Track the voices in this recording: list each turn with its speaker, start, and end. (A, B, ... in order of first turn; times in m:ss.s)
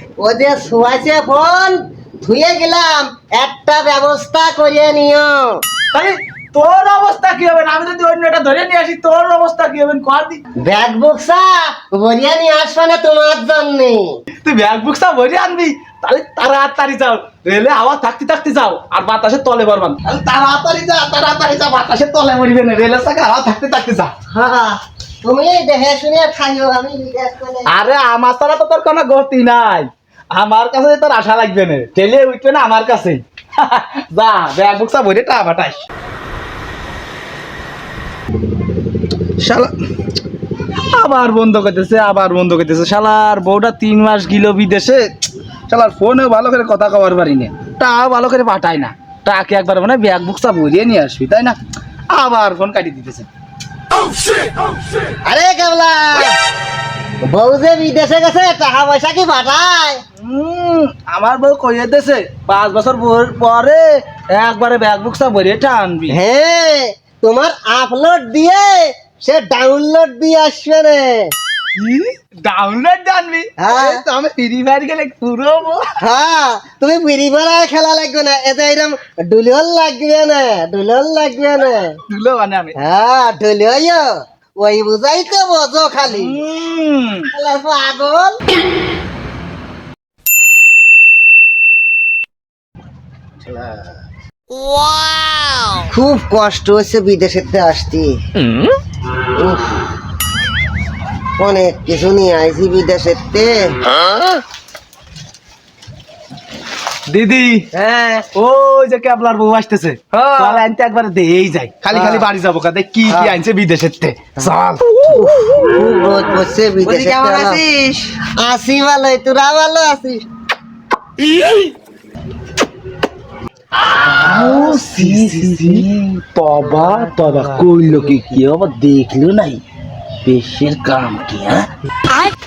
0:00.2-0:05.6 A
0:05.9-0:10.4 B
0:10.6-0:14.2 A
0:14.4-0:24.1 B
0:24.3-0:27.7 A
0:27.7-0:35.8 B
0:39.4-0:39.7 B
0:40.9-0:45.1 B
0:45.7-0:51.6 B
0:52.1-0:53.3 B
0:55.2-0:56.4 A
0:57.3-1:00.0 A
1:00.2-1:06.2 B
1:06.1-1:11.3 A
1:11.8-1:15.9 B
1:13.6-1:14.0 A
1:16.0-1:22.0 A
1:22.1-1:22.7 B
1:22.8-1:26.4 A
1:26.0-1:27.3 B
1:27.3-1:28.4 A
1:33.5-1:33.7 B
1:35.9-1:38.2 A
1:39.4-1:39.8 A
1:41.4-1:43.8 A
1:47.1-1:47.7 B
1:47.7-1:48.3 C
1:48.3-1:55.0 B
1:50.1-1:50.6 C
1:51.9-1:52.3 C
1:55.1-1:57.6 A
1:56.8-1:58.2 C
1:58.4-2:00.2 A
2:03.8-2:09.6 B
2:04.2-2:05.8 C
2:10.2-2:11.7 B